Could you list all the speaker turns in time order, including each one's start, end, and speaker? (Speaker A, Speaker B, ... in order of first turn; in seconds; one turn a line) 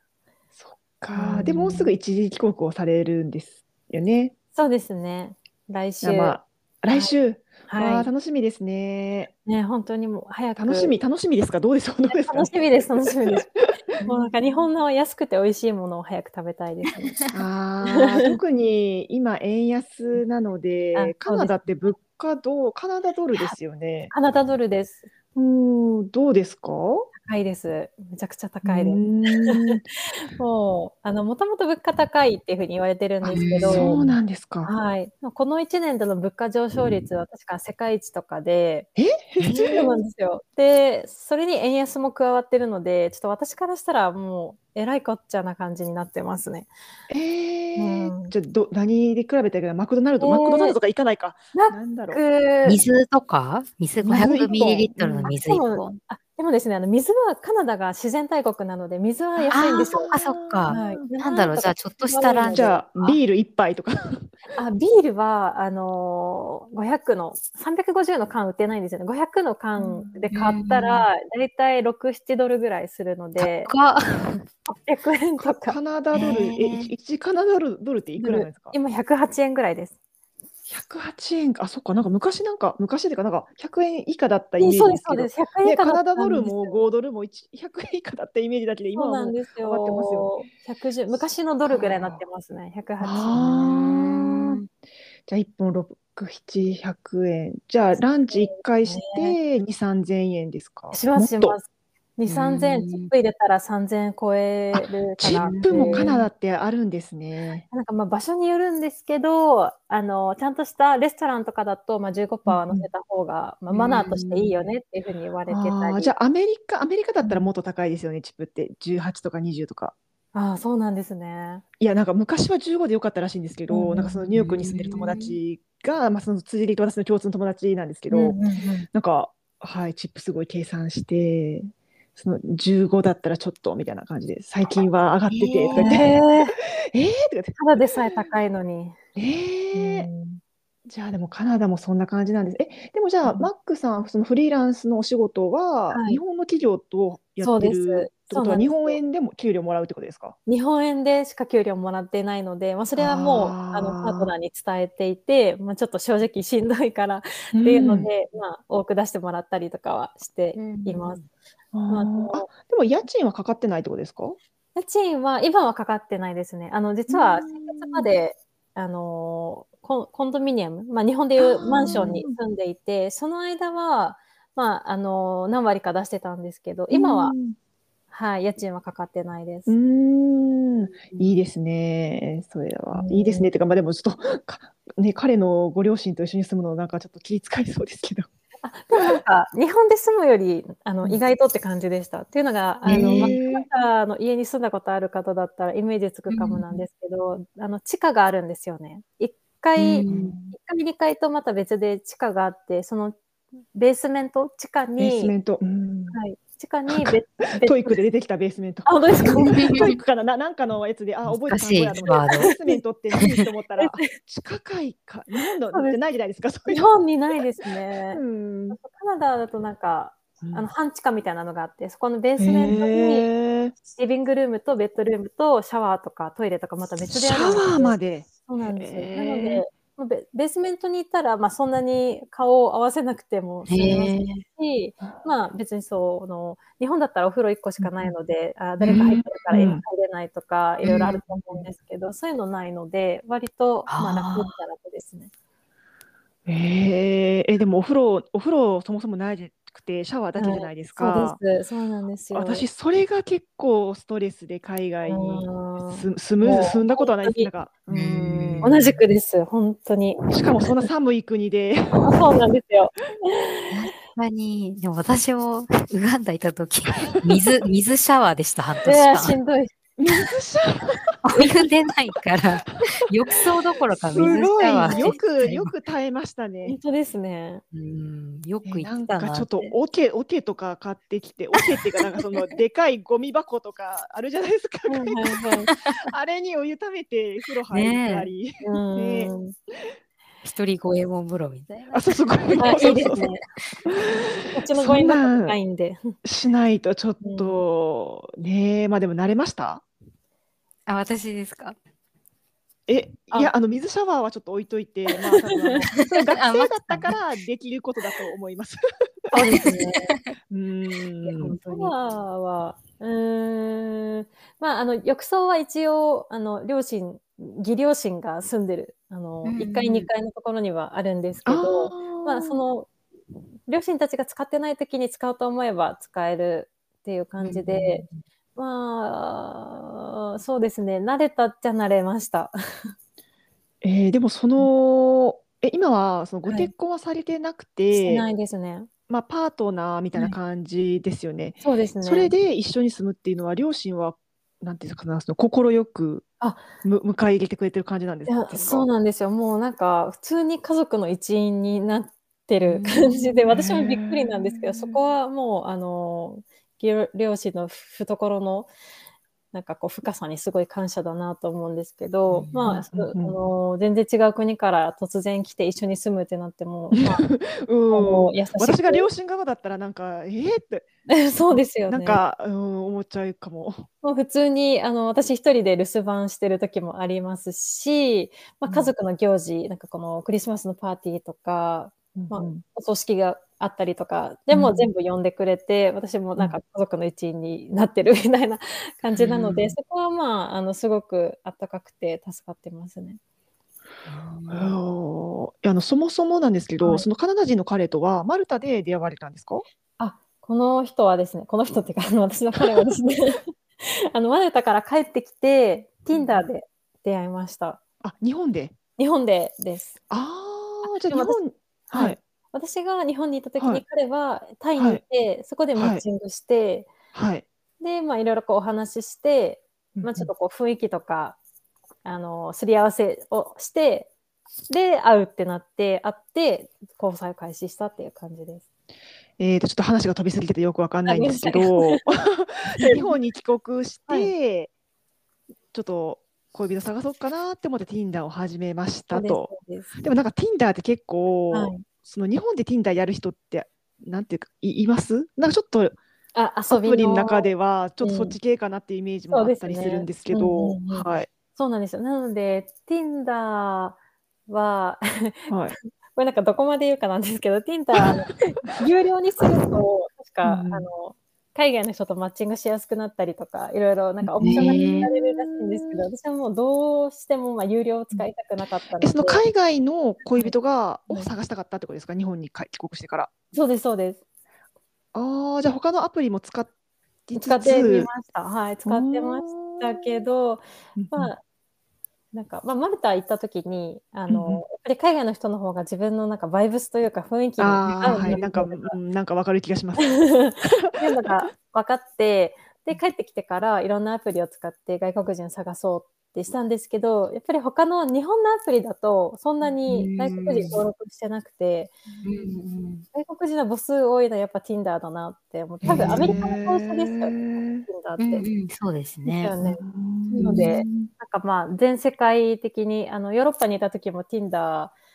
Speaker A: 0.6-4.3
Speaker B: 1.1-1.9
Speaker B: 4.5-6.4
Speaker A: 6.0-9.3
Speaker B: 7.7-8.1
Speaker B: 9.4-11.0
Speaker A: 10.6-12.5
Speaker B: 12.1-13.5
Speaker A: 13.1-14.3
Speaker B: 14.0-17.2
Speaker A: 17.3-24.1
Speaker B: 17.9-18.1
Speaker B: 20.9-21.6
Speaker B: 24.1-25.1
Speaker A: 25.3-27.1
Speaker B: 27.1-34.0
Speaker A: 28.6-29.8
Speaker A: 33.2-34.7
Speaker C: 33.3-34.2
Speaker B: 34.6-38.9
Speaker A: 39.0-39.9
Speaker B: 39.4-46.7
Speaker C: 39.4-39.8
Speaker A: 47.1-52.2
Speaker B: 47.8-48.3
Speaker B: 50.2-50.8
Speaker B: 51.5-52.8
Speaker C: 52.6-56.0
Speaker A: 54.0-55.3
Speaker B: 55.2-60.1
Speaker A: 59.4-61.0
Speaker C: 59.5-62.7
Speaker B: 60.7-63.2
Speaker A: 62.5-64.3
Speaker B: 64.5-73.7
Speaker A: 69.8-70.2
Speaker C: 70.3-71.1
Speaker C: 73.4-74.4
Speaker B: 74.7-75.8
Speaker A: 75.4-78.7
Speaker C: 76.1-76.9
Speaker B: 78.2-79.9
Speaker A: 80.7-90.3
Speaker B: 84.6-86.8
Speaker B: 88.9-93.4
Speaker A: 91.7-92.2
Speaker A: 93.0-94.6
Speaker C: 93.3-94.6
Speaker A: 95.3-101.6
Speaker B: 98.8-99.4
Speaker B: 100.9-106.1
Speaker C: 102.3-103.1
Speaker A: 105.2-107.7
Speaker C: 105.2-106.2
Speaker B: 107.7-116.1
Speaker A: 112.5-112.8
Speaker A: 115.5-119.9
Speaker B: 120.3-121.6
Speaker A: 121.8-128.4
Speaker B: 123.7-124.2
Speaker C: 124.3-125.3
Speaker B: 128.1-128.9
Speaker A: 128.9-137.6
Speaker C: 135.3-136.0
Speaker B: 135.7-136.6
Speaker B: 137.6-138.9
Speaker A: 139.1-140.1
Speaker B: 139.7-140.4
Speaker A: 140.8-150.3
Speaker B: 145.9-146.2
Speaker B: 147.4-149.0
Speaker B: 150.5-161.2
Speaker A: 153.0-154.3
Speaker A: 157.5-158.1
Speaker C: 160.6-161.2
Speaker A: 161.7-164.4
Speaker B: 161.9-162.5
Speaker B: 164.7-177.3
Speaker A: 167.1-168.1
Speaker A: 171.4-172.3
Speaker A: 176.9-177.6
Speaker B: 178.1-179.7
Speaker A: 179.7-188.3
Speaker B: 182.9-183.5
Speaker B: 188.6-203.2
Speaker C: 192.9-193.3
Speaker A: 192.9-193.7
Speaker C: 196.3-196.8
Speaker C: 199.8-200.3
Speaker A: 200.1-200.5
Speaker B: 203.7-205.3
Speaker A: 205.0-206.2
Speaker B: 206.1-208.0
Speaker A: 206.9-216.9
Speaker B: 208.8-209.9
Speaker C: 209.5-209.8
Speaker C: 211.2-212.5
Speaker B: 212.1-212.7
Speaker B: 213.8-214.1
Speaker B: 215.7-216.0
Speaker B: 216.7-223.3
Speaker A: 218.1-218.8
Speaker A: 220.4-220.7
Speaker A: 222.4-223.7
Speaker B: 223.8-245.3
Speaker A: 227.1-229.6
Speaker C: 233.7-234.4
Speaker A: 238.8-239.8
Speaker A: 240.8-241.2
Speaker C: 240.8-241.2
Speaker C: 243.9-244.5
Speaker A: 246.4-251.4
Speaker B: 250.3-252.7
Speaker A: 252.3-258.8
Speaker B: 255.1-257.5
Speaker C: 257.9-259.0
Speaker B: 258.6-260.8
Speaker A: 260.3-262.2
Speaker B: 262.0-263.7
Speaker C: 263.7-269.4
Speaker B: 268.8-269.7
Speaker A: 270.0-271.5
Speaker C: 271.2-275.7
Speaker A: 274.1-276.8
Speaker B: 274.8-275.2
Speaker B: 276.6-277.6
Speaker C: 277.7-279.7
Speaker A: 278.6-285.4
Speaker B: 284.9-285.7
Speaker C: 285.7-286.0
Speaker A: 286.0-289.3
Speaker C: 287.7-288.3
Speaker B: 288.6-289.5
Speaker C: 290.4-293.3
Speaker A: 291.9-293.2
Speaker B: 292.6-293.4
Speaker A: 293.9-295.6
Speaker B: 294.5-296.1
Speaker A: 296.2-299.8
Speaker B: 297.2-297.6
Speaker C: 300.9-301.8
Speaker A: 302.9-308.8
Speaker C: 306.0-307.1
Speaker B: 309.3-310.1
Speaker C: 309.5-310.2
Speaker A: 310.5-311.6
Speaker B: 311.2-322.9
Speaker C: 311.4-311.9
Speaker C: 319.4-320.1
Speaker A: 321.4-322.6
Speaker B: 323.7-328.0
Speaker C: 327.4-328.1
Speaker B: 328.6-332.9
Speaker A: 333.8-338.3
Speaker B: 336.4-336.7
Speaker B: 337.9-338.9
Speaker A: 339.1-346.3
Speaker B: 341.6-342.3
Speaker B: 346.4-346.6
Speaker A: 346.8-348.9
Speaker B: 348.2-358.7
Speaker A: 352.8-354.9
Speaker B: 359.5-367.2
Speaker A: 362.6-363.4
Speaker A: 366.9-370.9
Speaker B: 367.9-369.1
Speaker B: 371.1-372.2
Speaker A: 371.5-373.9
Speaker B: 374.0-393.2
Speaker A: 378.6-378.9
Speaker A: 382.1-382.6
Speaker A: 384.5-384.9
Speaker C: 389.2-389.7
Speaker C: 394.1-394.7
Speaker A: 394.5-399.6
Speaker B: 400.0-407.8
Speaker A: 406.1-406.4
Speaker A: 408.0-408.7
Speaker B: 409.0-410.0
Speaker A: 410.1-412.2
Speaker B: 410.8-416.9
Speaker A: 413.6-413.8
Speaker A: 414.8-415.0
Speaker A: 415.8-416.0
Speaker A: 417.1-417.4
Speaker B: 417.8-421.4
Speaker A: 419.9-420.3
Speaker B: 422.0-424.1
Speaker B: 424.7-428.6
Speaker A: 429.4-434.7
Speaker B: 431.1-432.0
Speaker B: 432.8-433.2
Speaker A: 435.7-446.0
Speaker B: 439.1-440.0
Speaker B: 441.5-441.8
Speaker B: 446.3-448.4
Speaker A: 446.7-451.3
Speaker B: 449.3-455.5
Speaker A: 455.5-455.7
Speaker B: 456.1-469.4
Speaker A: 460.4-460.9
Speaker A: 464.2-466.0
Speaker C: 464.4-465.1
Speaker A: 469.0-473.3
Speaker B: 473.5-474.2
Speaker A: 475.1-476.7
Speaker A: 477.3-478.1
Speaker B: 477.3-481.4
Speaker A: 478.8-480.2
Speaker A: 481.0-481.3
Speaker B: 482.3-488.9
Speaker A: 484.3-484.6
Speaker A: 487.6-491.3
Speaker B: 490.1-501.9
Speaker C: 499.9-500.8
Speaker C: 502.2-503.0
Speaker B: 503.1-508.5
Speaker C: 505.8-506.4
Speaker A: 505.8-507.9
Speaker C: 508.2-509.6
Speaker B: 509.2-514.9
Speaker A: 509.6-511.1
Speaker C: 510.4-510.7